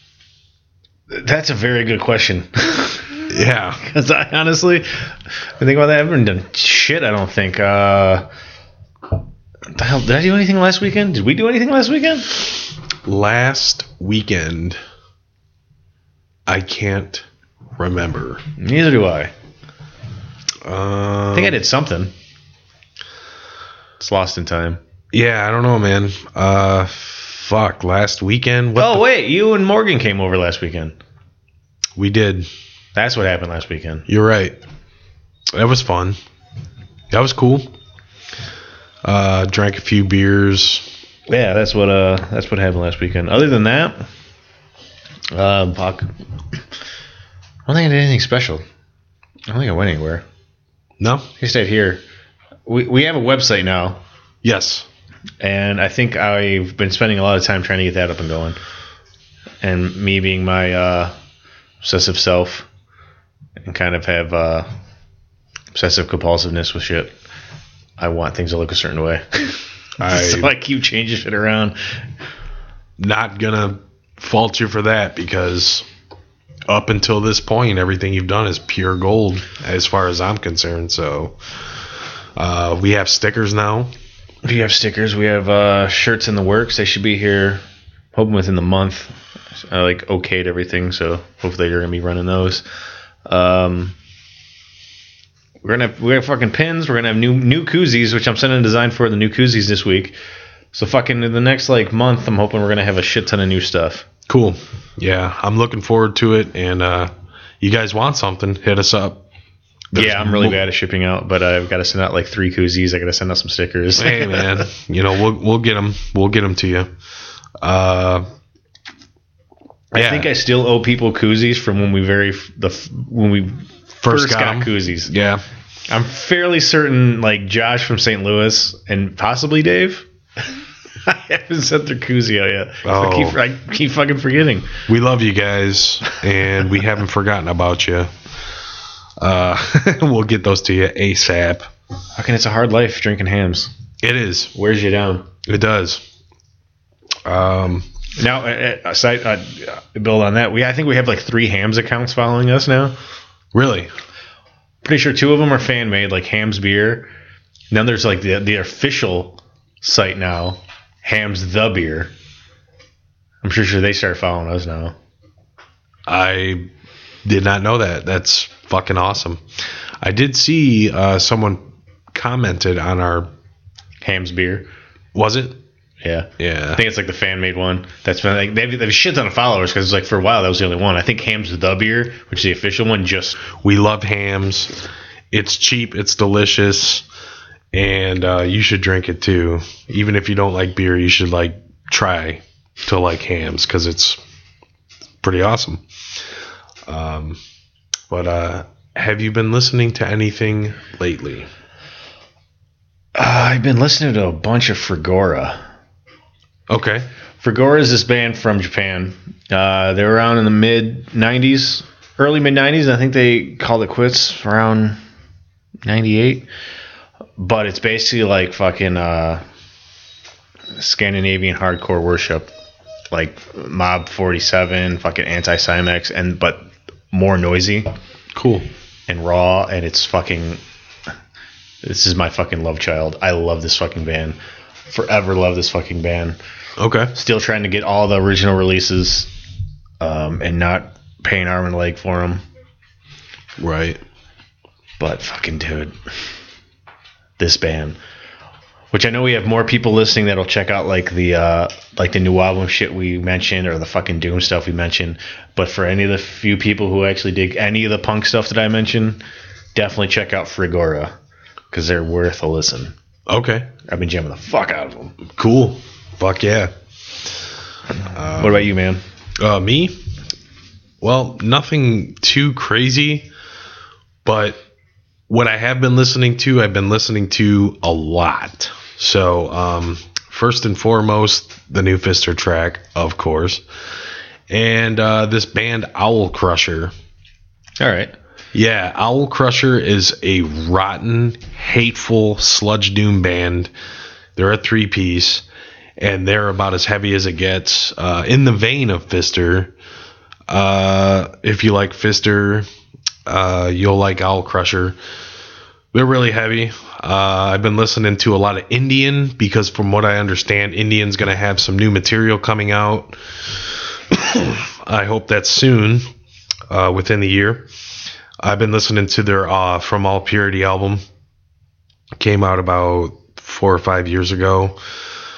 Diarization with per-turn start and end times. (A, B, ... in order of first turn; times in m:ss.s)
0:01.1-0:03.3 A
0:03.3-0:03.8 B
0:03.8-0:05.0 A
0:05.6-0:08.3 A
0:09.7-0:12.3 A
0:13.0-0:14.8 B
0:16.5-0:17.3 B
0:17.8-0:18.4 B
0:18.6-0:19.3 A
0:20.6-0:21.6 B
0:21.3-0:22.1 A
0:24.0-0:24.8 A
0:25.1-0:29.0 B
0:28.8-0:31.0 A
0:32.0-0:32.5 B
0:33.0-0:34.1 A
0:34.1-0:34.6 B
0:35.5-0:36.2 B
0:37.1-0:37.7 B
0:39.0-0:40.9 B
0:41.3-0:44.0 A
0:45.3-0:46.1 A
0:47.7-0:48.6 A
0:49.5-0:50.2 A
0:51.0-0:51.3 B
0:51.4-0:52.0 A
0:52.7-0:54.0 A
0:54.4-0:54.9 B
0:55.4-0:58.6 A
0:59.6-1:01.1 A
1:01.8-1:02.7 A
1:03.6-1:04.7 A
1:05.7-1:07.2 A
1:08.0-1:11.8 A
1:10.0-1:10.5 B
1:13.0-1:15.9 B
1:16.7-1:21.4 B
1:22.4-1:23.9 B
1:24.4-1:27.6 A
1:28.1-1:32.6 A
1:33.3-1:34.0 A
1:35.6-1:40.2 A
1:40.7-1:44.1 A
1:44.3-1:49.2 B
1:49.9-1:50.6 B
1:50.0-1:54.7 A
1:54.0-1:56.9 B
1:57.6-1:58.3 B
1:59.9-2:05.1 A
2:00.0-2:00.3 B
2:04.0-2:05.4 B
2:05.9-2:10.1 A
2:11.0-2:14.8 A
2:12.8-2:13.4 B
2:14.9-2:18.1 B
2:19.2-2:21.7 B
2:22.2-2:23.7 A
2:24.0-2:24.5 B
2:24.6-2:25.3 A
2:25.4-2:26.0 B
2:27.2-2:27.9 B
2:28.2-2:33.0 A
2:33.5-2:33.9 B
2:34.8-2:37.1 A
2:37.7-2:42.1 A
2:43.4-2:44.9 A
2:46.1-2:46.7 B
2:47.2-2:49.4 B
2:50.0-2:53.3 B
2:54.0-2:54.7 A
2:55.1-2:55.6 B
2:56.0-3:03.4 A
2:56.4-2:56.8 B
3:03.5-3:04.7 B
3:05.3-3:07.1 B
3:07.7-3:14.2 B
3:15.2-3:15.8 B
3:16.9-3:17.4 B
3:18.1-3:21.5 B
3:23.2-3:25.6 A
3:26.7-3:27.1 B
3:27.4-3:35.0 A
3:35.8-3:36.5 A
3:37.4-3:39.4 A
3:40.8-3:42.5 A
3:43.1-3:47.9 A
3:48.3-3:48.7 B
3:49.1-3:50.6 A
3:51.8-3:56.4 A
3:56.8-3:57.1 B
3:57.1-3:59.3 A
4:00.0-4:02.4 A
4:03.6-4:04.0 B
4:05.0-4:06.0 A
4:07.4-4:08.0 A
4:08.9-4:19.2 A
4:19.8-4:21.2 A
4:21.7-4:23.0 A
4:23.3-4:23.7 B
4:23.9-4:25.2 A
4:25.3-4:26.7 B
4:28.1-4:28.7 B
4:28.3-4:29.0 A
4:29.4-4:30.0 B
4:31.0-4:33.3 B
4:34.2-4:34.6 B
4:35.3-4:43.6 B
4:44.5-4:46.9 B
4:47.8-4:48.1 A
4:48.5-4:53.7 B
4:54.4-4:55.4 B
4:56.0-4:59.7 B
5:00.5-5:02.7 B
5:03.3-5:05.0 B
5:05.9-5:16.0 B
5:16.7-5:17.7 B
5:18.4-5:21.0 B
5:22.2-5:24.8 B